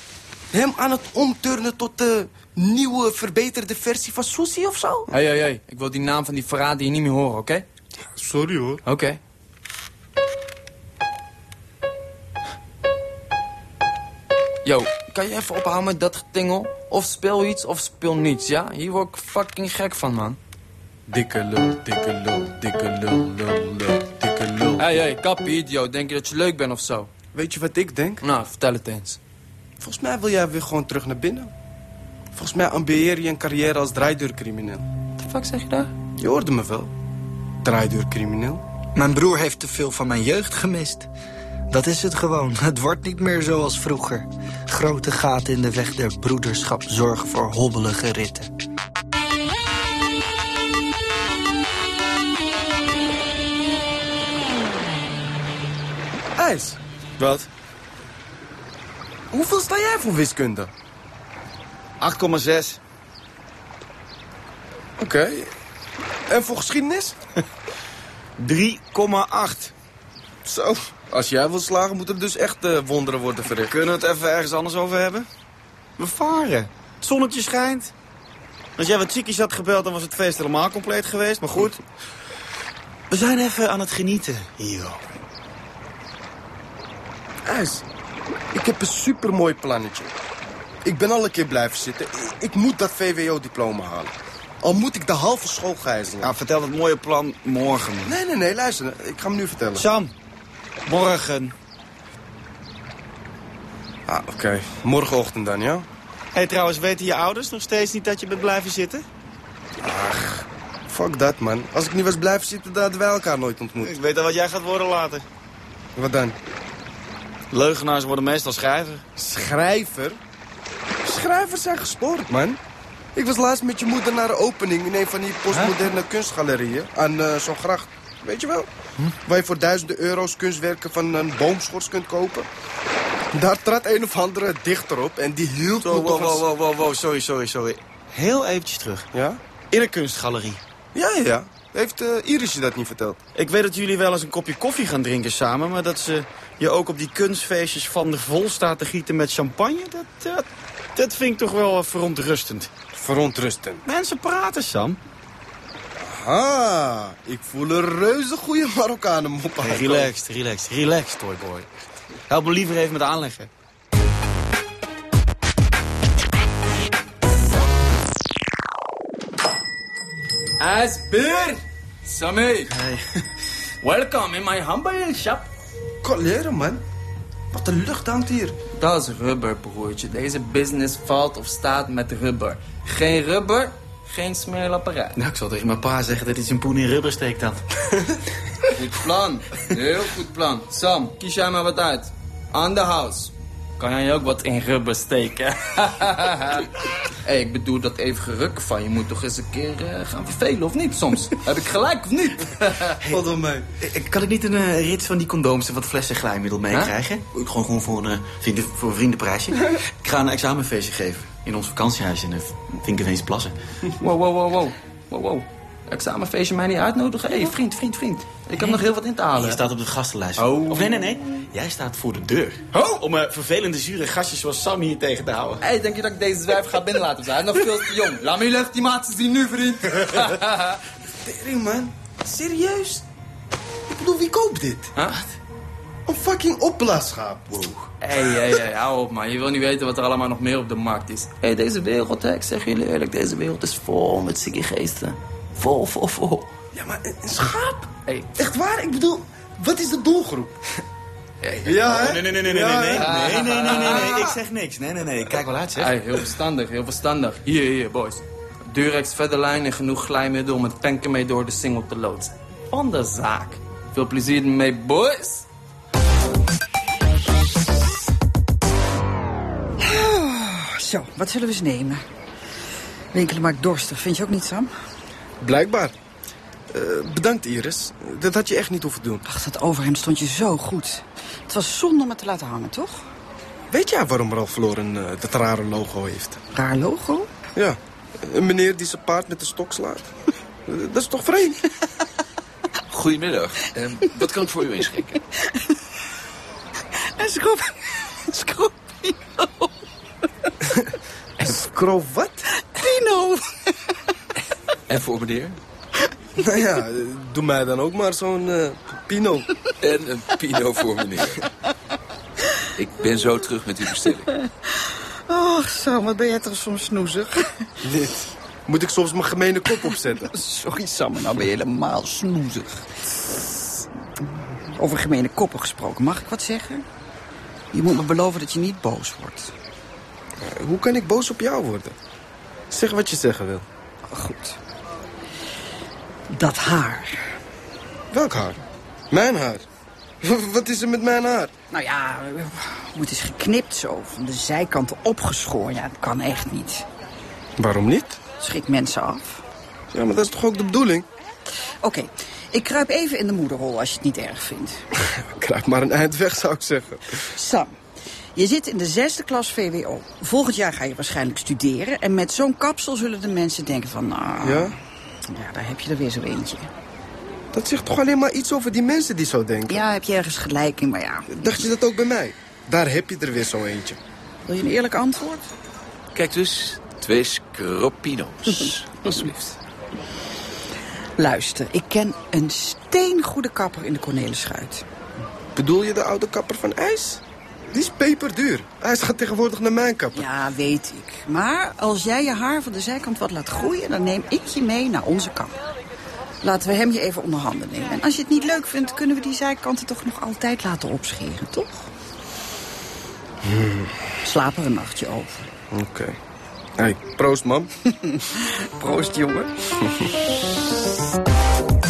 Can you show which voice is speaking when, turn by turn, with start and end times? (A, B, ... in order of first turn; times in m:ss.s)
0:00.5-0:05.1 A
0:05.1-0:07.6 B
0:08.2-0:08.8 A
0:08.8-0:09.2 B
0:14.6-0:20.4 B
0:21.1-0:24.9 A
0:24.8-0:27.1 B
0:27.3-0:28.2 A
0:28.2-0:29.2 B
0:29.8-0:31.5 A
0:32.4-0:34.9 A
0:35.2-0:35.9 B
0:36.2-0:36.9 A
0:37.6-0:38.6 A
0:39.0-0:41.1 C
0:41.7-0:48.5 C
0:56.4-0:56.8 A
0:57.2-0:57.5 D
0:59.3-1:00.7 A
1:02.0-1:02.8 D
1:05.0-1:05.5 A
1:06.3-1:07.2 A
1:08.4-1:09.7 D
1:10.4-1:13.8 A
1:13.7-1:15.3 D
1:16.0-1:17.9 D
1:18.8-1:21.8 D
1:23.1-1:25.0 D
1:27.4-1:27.8 A
1:28.5-1:30.2 A
1:30.8-1:36.4 A
1:36.2-1:38.2 D
1:38.0-1:39.9 A
1:39.8-1:40.1 D
1:40.8-1:41.6 D
1:44.1-1:45.9 A
1:46.3-1:49.0 D
1:49.8-1:53.9 A
1:53.8-1:55.2 D
1:56.0-1:56.4 A
1:57.5-1:59.0 D
1:59.2-2:00.2 A
2:01.0-2:02.6 A
2:03.2-2:08.7 A
2:09.2-2:12.5 A
2:13.3-2:16.4 A
2:15.8-2:19.1 D
2:19.1-2:19.4 A
2:19.7-2:20.6 D
2:20.9-2:23.2 A
2:23.4-2:32.7 D
2:32.9-2:33.8 A
2:33.9-2:35.0 D
2:36.0-2:40.1 A
2:39.6-2:41.7 D
2:42.3-2:43.5 D
2:50.6-2:52.7 B
2:52.7-2:53.0 D
2:53.8-2:55.5 B
2:56.0-2:56.8 A
2:57.5-2:58.6 A
2:58.8-3:05.2 B
3:05.2-3:07.6 D
3:08.7-3:16.7 B
3:17.2-3:23.0 B
3:23.1-3:23.7 A
3:23.8-3:33.6 D
3:34.0-3:39.6 B
3:39.4-3:45.6 D
3:40.4-3:41.0 B
3:45.6-3:50.8 B
3:51.2-3:53.0 A
3:53.9-3:54.9 A
3:55.0-3:55.3 B
3:56.1-3:57.9 A
3:58.0-4:06.5 B
4:06.7-4:10.6 A
4:11.4-4:11.8 B
4:11.6-4:14.2 A
4:11.8-4:16.0 D
4:13.0-4:14.3 B
4:15.8-4:25.5 B
4:29.8-4:32.0 E
4:33.1-4:34.7 E
4:35.4-4:35.9 A
4:36.7-4:39.2 A
4:39.2-4:43.0 E
4:43.7-4:46.4 A
4:46.5-4:47.3 E
4:47.6-4:50.1 A
4:50.7-4:51.6 A
4:52.9-4:55.2 F
4:57.2-4:59.7 E
5:01.4-5:02.4 A
5:02.7-5:03.7 E
5:04.9-5:05.6 F
5:06.4-5:09.5 A
5:09.8-5:11.4 F
5:12.8-5:14.3 F
5:15.3-5:17.7 E
5:17.8-5:20.3 A
5:20.2-5:23.5 E
5:24.7-5:26.8 E
5:27.7-5:29.5 E
5:30.4-5:32.0 A
5:32.7-5:33.6 A
5:34.1-5:34.6 E
5:36.3-5:37.4 E
5:38.1-5:39.6 A
5:40.2-5:41.5 A
5:41.7-5:46.8 E
5:47.6-5:48.2 A
5:48.4-5:49.4 E
5:49.9-5:51.1 A
5:51.8-5:54.8 E
5:55.2-5:57.0 A
5:57.3-5:57.8 E
5:58.4-6:04.8 E
6:04.4-6:04.8 A
6:05.3-6:06.7 E
6:07.5-6:09.8 A
6:09.7-6:11.3 E
6:11.3-6:14.0 A
6:14.4-6:15.5 E
6:16.1-6:19.5 F
6:21.2-6:24.8 E
6:25.6-6:30.2 A
6:30.2-6:35.6 E
6:36.4-6:41.9 E
6:43.4-6:43.9 A
6:44.2-6:45.5 E
6:45.7-6:46.2 A
6:46.8-6:47.7 A
6:48.0-6:49.5 E
6:49.8-6:50.1 A